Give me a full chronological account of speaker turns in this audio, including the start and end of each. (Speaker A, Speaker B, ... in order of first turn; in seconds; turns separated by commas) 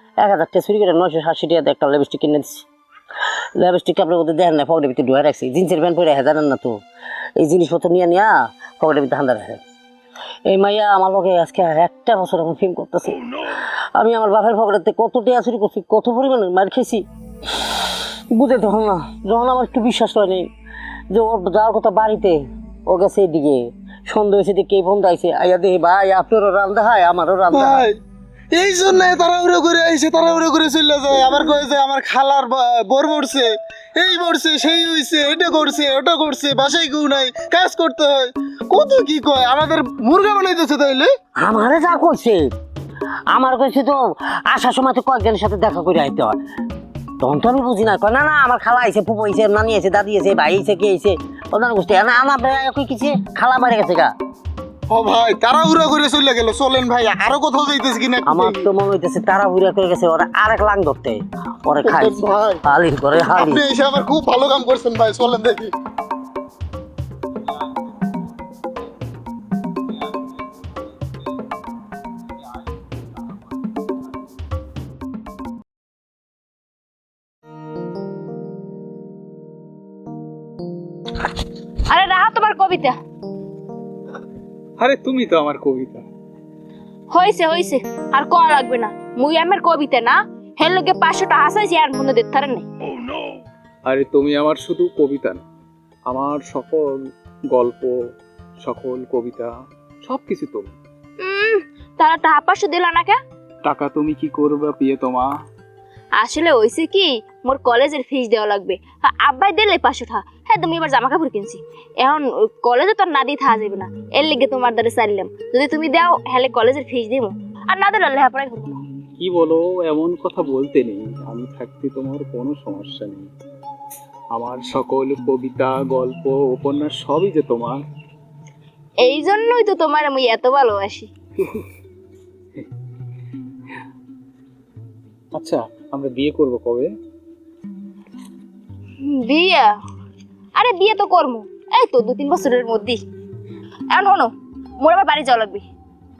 Speaker A: 0.2-2.6, Speaker A: 3.6-6.8, Speaker A: 7.4-9.6, Speaker A: 10.5-20.5, Speaker A: 21.1-27.8, Speaker B: 27.5-28.0, Speaker B: 28.5-41.1, Speaker A: 41.4-42.5, Speaker A: 43.3-46.4, Speaker A: 47.2-54.1, Speaker B: 54.9-58.7, Speaker A: 58.2-63.6, Speaker B: 61.8-62.6, Speaker B: 63.1-65.7, Speaker C: 81.9-82.9, Speaker D: 84.8-86.0, Speaker C: 87.1-92.7, Speaker D: 93.8-95.4, Speaker D: 96.1-98.0, Speaker D: 98.6-99.5, Speaker D: 100.0-100.7, Speaker C: 101.2-103.2, Speaker D: 103.6-105.3, Speaker C: 106.2-118.8, Speaker D: 119.2-123.3, Speaker D: 124.3-127.8, Speaker C: 129.0-131.1, Speaker D: 131.4-131.7, Speaker D: 135.3-136.9, Speaker C: 139.0-139.7, Speaker C: 140.5-143.0, Speaker C: 143.9-145.7